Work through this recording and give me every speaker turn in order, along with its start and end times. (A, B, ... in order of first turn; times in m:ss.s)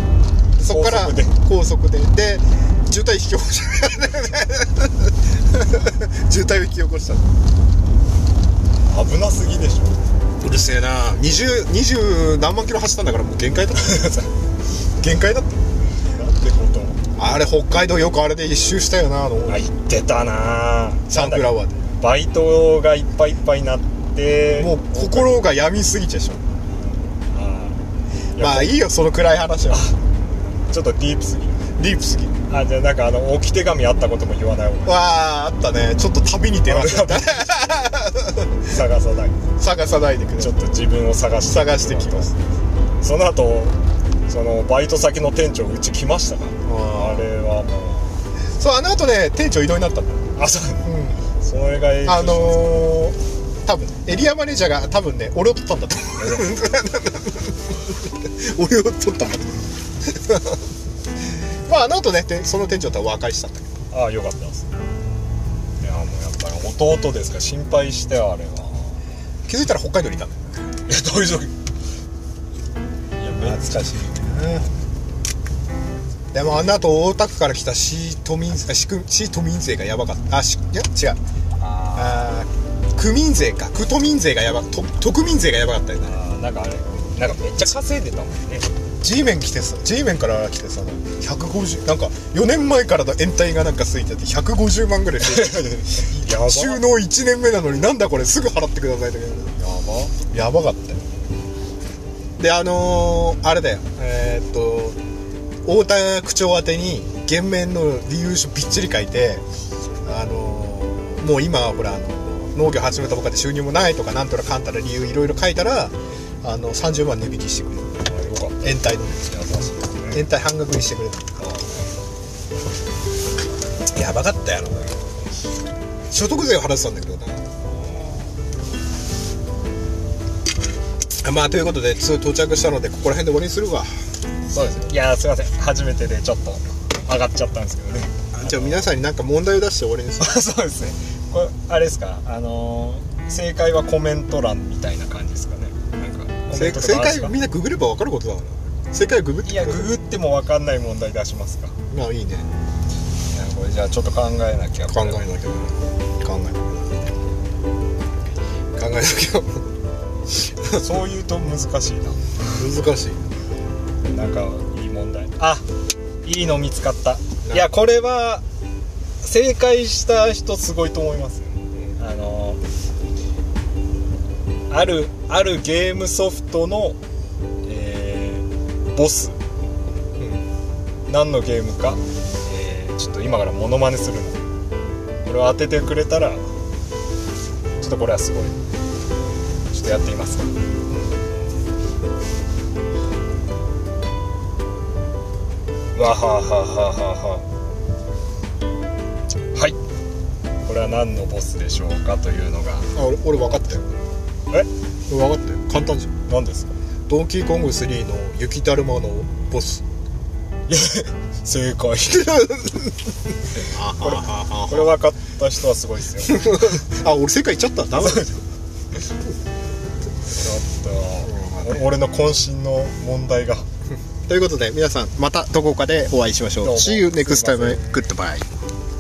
0:00.6-0:07.3 A
0:00.7-0:01.4 B
0:08.9-0:10.0 B
0:10.4-0:14.2 A
0:13.8-0:14.3 B
0:15.0-0:15.6 A
0:16.0-0:17.2 B
0:17.2-0:19.6 A
0:19.5-0:25.4 B
0:21.1-0:21.8 A
0:24.6-0:26.4 A
0:27.3-0:27.8 B
0:28.4-0:28.8 B
0:28.4-0:29.9 A
0:29.7-0:30.0 B
0:30.7-0:31.6 B
0:31.8-0:32.4 A
0:32.5-0:35.0 B
0:34.8-0:38.7 A
0:36.7-0:37.5 B
0:38.6-0:39.4 B
0:39.6-0:40.6 A
0:40.4-0:42.3 B
0:41.5-0:42.3 A
0:43.0-0:48.2 B
0:46.6-0:47.3 A
0:48.6-0:50.3 A
0:50.4-0:50.9 B
0:50.8-0:51.2 A
0:51.4-0:53.0 B
0:52.0-1:00.6 A
0:56.2-0:56.6 B
1:01.7-1:03.7 A
1:03.9-1:04.7 B
1:05.8-1:09.0 B
1:09.5-1:10.7 A
1:10.9-1:11.5 B
1:13.2-1:14.1 B
1:13.4-1:14.7 A
1:16.3-1:21.2 A
1:21.6-1:22.4 B
1:21.9-1:26.1 A
1:26.0-1:28.7 B
1:29.0-1:39.5 A
1:35.2-1:36.8 B
1:39.6-1:40.2 B
1:40.3-1:41.0 A
1:42.4-1:45.0 A
1:45.6-1:49.4 A
1:50.0-1:57.9 A
1:58.0-2:00.2 B
1:58.6-1:59.2 A
2:00.1-2:01.4 A
2:01.4-2:01.9 B
2:03.9-2:05.1 A
2:06.1-2:07.5 A
2:07.7-2:08.2 B
2:11.2-2:13.9 A
2:14.5-2:18.9 B
2:18.3-2:20.4 A
2:20.2-2:27.4 B
2:26.5-2:29.9 A
2:29.4-2:31.8 B
2:31.9-2:32.5 A
2:33.3-2:35.2 B
2:34.9-2:37.0 A
2:38.8-2:39.6 A
2:40.6-2:42.2 B
2:42.5-2:43.2 A
2:44.1-2:45.6 B
2:46.2-2:48.4 B
2:49.2-2:52.6 B
2:54.7-2:57.0 B
2:57.6-2:59.4 B
3:01.1-3:04.5 B
3:05.2-3:06.4 B
3:07.8-3:08.6 B
3:09.7-3:10.5 B
3:16.0-3:17.4 B
3:20.6-3:22.9 B
3:22.9-3:23.8 A
3:25.1-3:26.1 A
3:26.3-3:26.7 B
3:27.1-3:29.8 A
3:30.7-3:32.5 B
3:32.2-3:32.9 A
3:33.6-3:34.9 A
3:34.0-3:36.8 B
3:36.3-3:38.3 A
3:38.0-3:38.4 B
3:40.3-3:43.7 B
3:41.2-3:41.8 A
3:44.3-3:48.5 A
3:46.6-3:48.1 B